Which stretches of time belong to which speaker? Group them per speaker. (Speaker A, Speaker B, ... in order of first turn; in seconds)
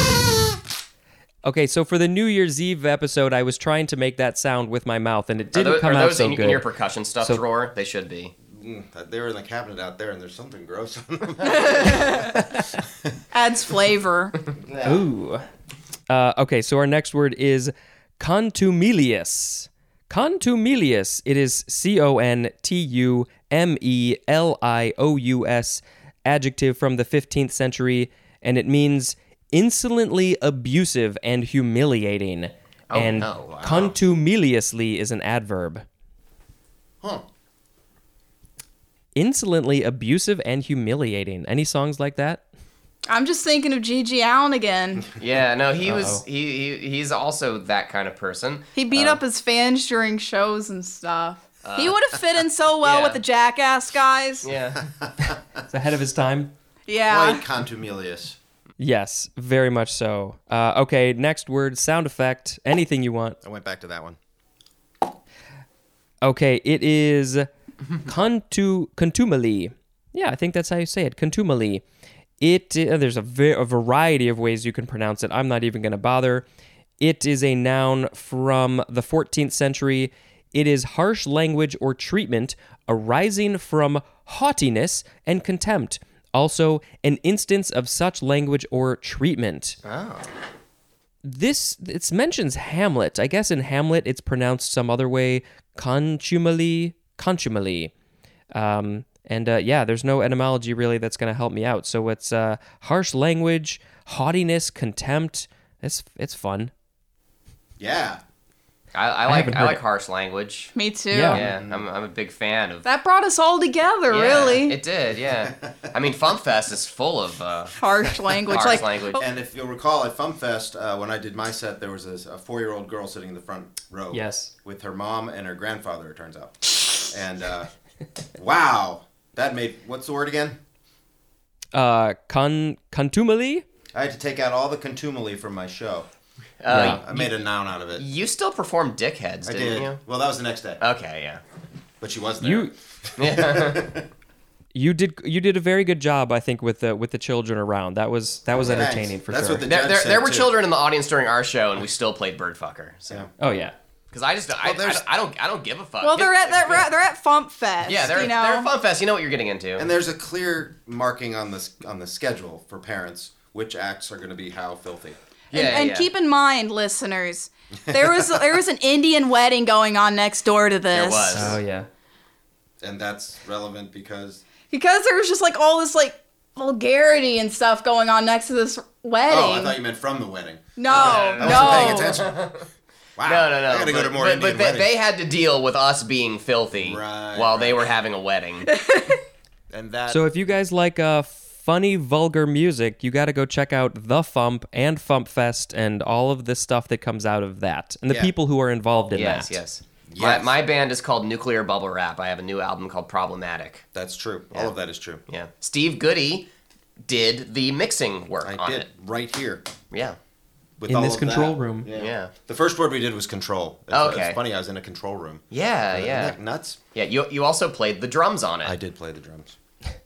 Speaker A: 1.4-6.6, 14.8-15.4, 16.1-35.9, 39.1-42.4, 45.9-46.2, 55.7-56.5, 58.8-63.4, 66.2-67.5, 68.0-71.8, 72.4-76.5, 77.0-89.8, 91.2-97.9, 98.5-106.7, 109.2-109.8, 111.1-111.4, 124.1-124.5, 131.7-133.6, 136.7-137.3, 142.4-142.7, 144.7-149.7, 153.4-153.7, 171.3-171.9, 190.1-199.6, 210.9-211.9
Speaker B: 5.5-8.3, 32.9-33.6, 45.2-49.2, 51.6-52.2, 52.8-53.2, 54.4-54.9, 89.8-90.3, 108.9-110.7, 111.3-112.8, 114.1-117.8, 118.3-119.2, 136.6-137.2, 137.9-140.0, 140.8-141.4, 143.2-144.0, 149.6-153.3, 154.1-156.9, 157.8-159.9, 165.5-166.1, 170.9-171.6, 180.9-182.7, 183.2-188.7, 199.1-203.8, 205.3-206.5, 207.1-208.9, 209.9-210.2, 211.9-212.3, 213.9-214.4, 215.5-216.3, 216.9-218.8
Speaker C: 8.5-12.4, 14.5-15.1, 33.4-34.0, 54.8-55.4, 57.1-58.4, 63.4-64.2, 107.8-108.2, 111.3-111.8, 118.6-127.7, 128.3-130.6, 133.9-136.1, 136.7-138.0, 139.4-140.8, 142.0-144.1, 148.6-150.6, 154.6-155.0, 159.8-165.2, 167.9-168.6, 172.8-174.4, 179.3-182.6, 183.2-184.9, 186.7-187.9, 189.7-190.2, 200.1-200.5, 203.9-205.2, 208.4-209.6, 210.8-216.8, 218.6-219.6
Speaker D: 11.4-12.4, 13.3-14.4, 43.1-45.1, 48.8-54.5, 56.9-57.4, 110.8-111.4, 112.8-114.8, 117.8-119.1, 156.0-158.7, 165.5-171.6, 174.7-179.8, 180.8-182.2, 188.7-189.2